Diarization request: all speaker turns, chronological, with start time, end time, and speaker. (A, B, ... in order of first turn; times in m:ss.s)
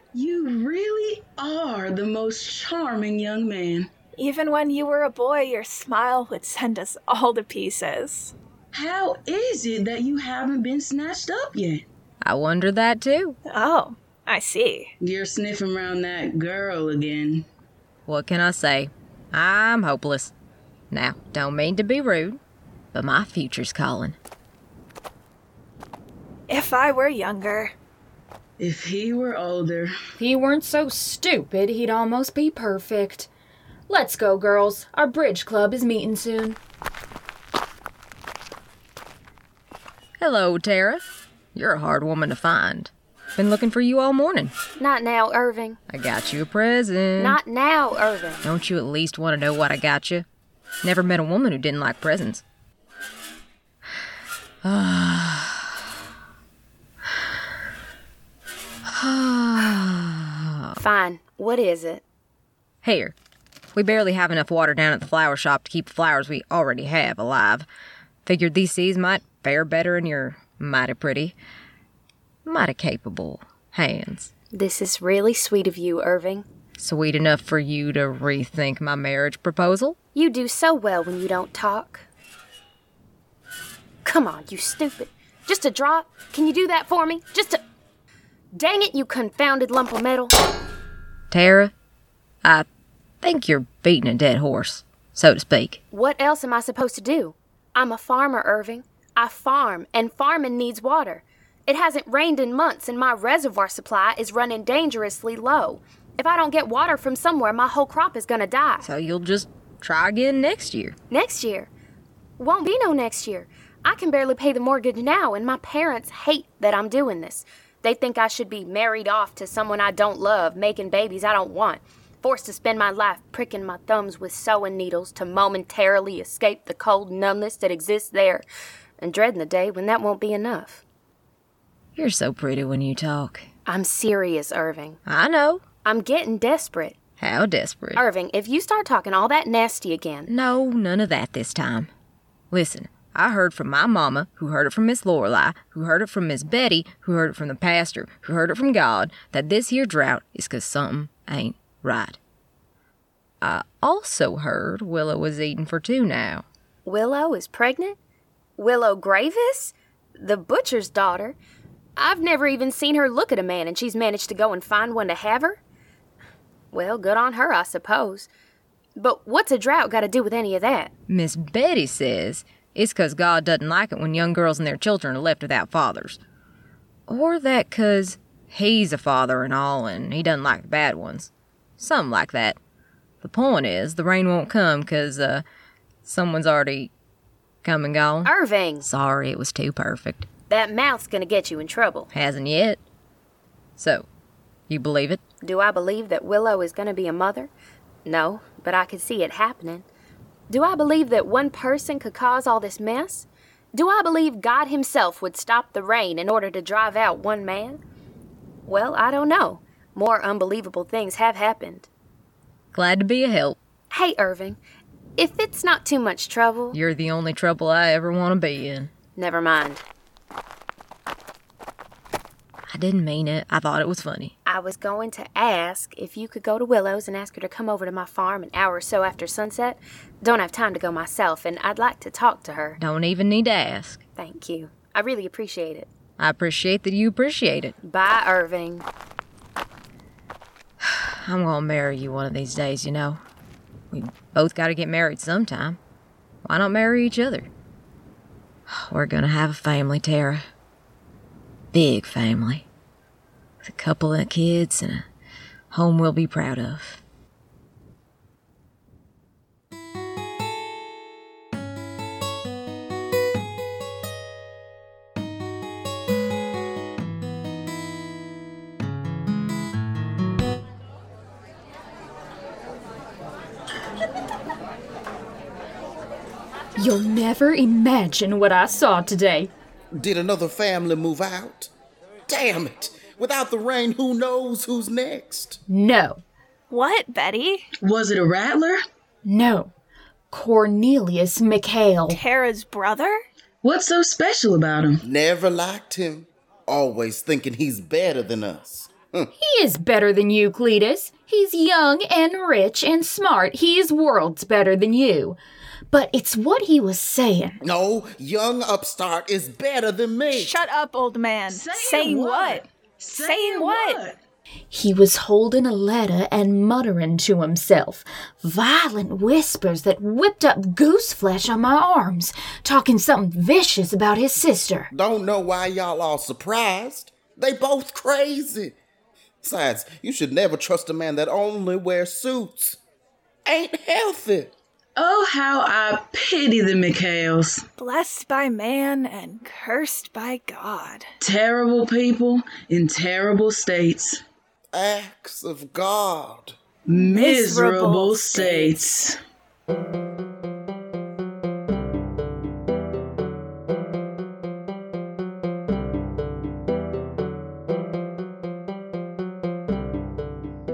0:00.1-0:03.9 A
0:04.2-0:08.3 B
0:08.7-0:11.8 A
0:12.2-0:13.4 C
0:13.5-0:14.9 B
0:15.0-0:17.5 A
0:18.1-0:20.3 C
0:20.9-0:22.4 C
0:22.9-0:24.2 C
0:26.5-0:27.7 B
0:28.6-0:30.0 A
0:30.2-0:33.3 D
0:33.9-0:36.6 D
0:40.2-0:44.5 C
0:44.8-0:45.8 E
0:45.9-0:47.4 C
0:47.2-0:48.4 E
0:48.4-0:50.3 C
0:50.8-0:52.4 C
0:54.6-0:55.8 C
0:58.8-1:00.8 C
1:00.8-1:02.0 E
1:02.8-1:03.2 C
1:03.7-1:07.7 C
1:08.2-1:11.4 C
1:12.4-1:14.3 C
1:14.5-1:16.5 E
1:16.8-1:20.0 C
1:20.1-1:22.0 E
1:24.0-1:27.6 E
1:28.5-1:30.3 E
1:31.3-1:31.7 C
1:33.2-1:35.8 C
1:35.9-1:48.9 E
1:48.8-1:51.0 C
1:51.1-1:51.7 E
1:52.4-2:08.5 E
2:09.0-2:10.8 E
2:12.0-2:13.5 C
2:13.7-2:15.0 E
2:15.1-2:15.6 C
2:15.8-2:17.0 E
2:17.2-2:18.0 C
2:18.0-2:20.3 E
2:20.3-2:21.9 C
2:22.5-2:32.2 C
2:33.4-2:36.5 C
2:36.8-2:38.0 E
2:38.6-2:41.4 E
2:42.0-2:45.6 E
2:46.7-2:48.3 E
2:49.0-2:50.9 E
2:51.1-2:56.2 C
2:57.1-3:02.6 C
3:03.2-3:05.4 C
3:06.0-3:06.9 C
3:07.6-3:10.3 C
3:08.2-3:08.9 E
3:10.5-3:12.1 E
3:12.1-3:12.8 C
3:13.8-3:14.1 C
3:14.7-3:15.2 C
3:15.4-3:17.5 E
3:18.0-3:19.9 E
3:20.5-3:27.8 E
3:28.7-3:31.9 E
3:32.7-3:33.6 C
3:33.9-3:34.6 E
3:35.2-3:36.8 E
3:36.7-3:38.9 C
3:39.2-3:39.8 E
3:42.7-3:44.3 C
3:44.4-3:52.8 E
3:52.8-3:54.0 C
3:54.2-3:55.9 E
3:56.2-3:57.8 C
3:57.8-3:58.9 E
4:00.8-4:03.2 C
4:03.9-4:05.8 C
4:06.4-4:07.5 C
4:08.7-4:10.5 C
4:11.7-4:12.7 C
4:13.6-4:15.0 C
4:15.7-4:17.0 C
4:36.8-4:39.5 D
4:39.9-4:41.7 F
4:42.3-4:45.6 F
4:45.7-4:46.2 D
4:46.7-4:47.6 B
4:47.8-4:48.8 A
4:49.2-4:49.7 D
4:50.3-4:52.2 D
4:52.1-4:53.2 B
4:53.6-4:55.0 A
4:55.0-4:59.3 F
4:59.4-5:05.4 D
5:05.9-5:07.6 D
5:07.6-5:10.6 F
5:10.3-5:14.0 B
5:11.5-5:14.2 A
5:14.7-5:24.9 D
5:24.9-5:28.8 F
5:29.4-5:32.8 F
5:33.5-5:34.5 F
5:35.0-5:37.6 A
5:37.8-5:41.1 B
5:41.2-5:44.2 A
5:44.7-5:46.6 F
5:46.9-5:49.2 A
5:47.0-5:48.8 B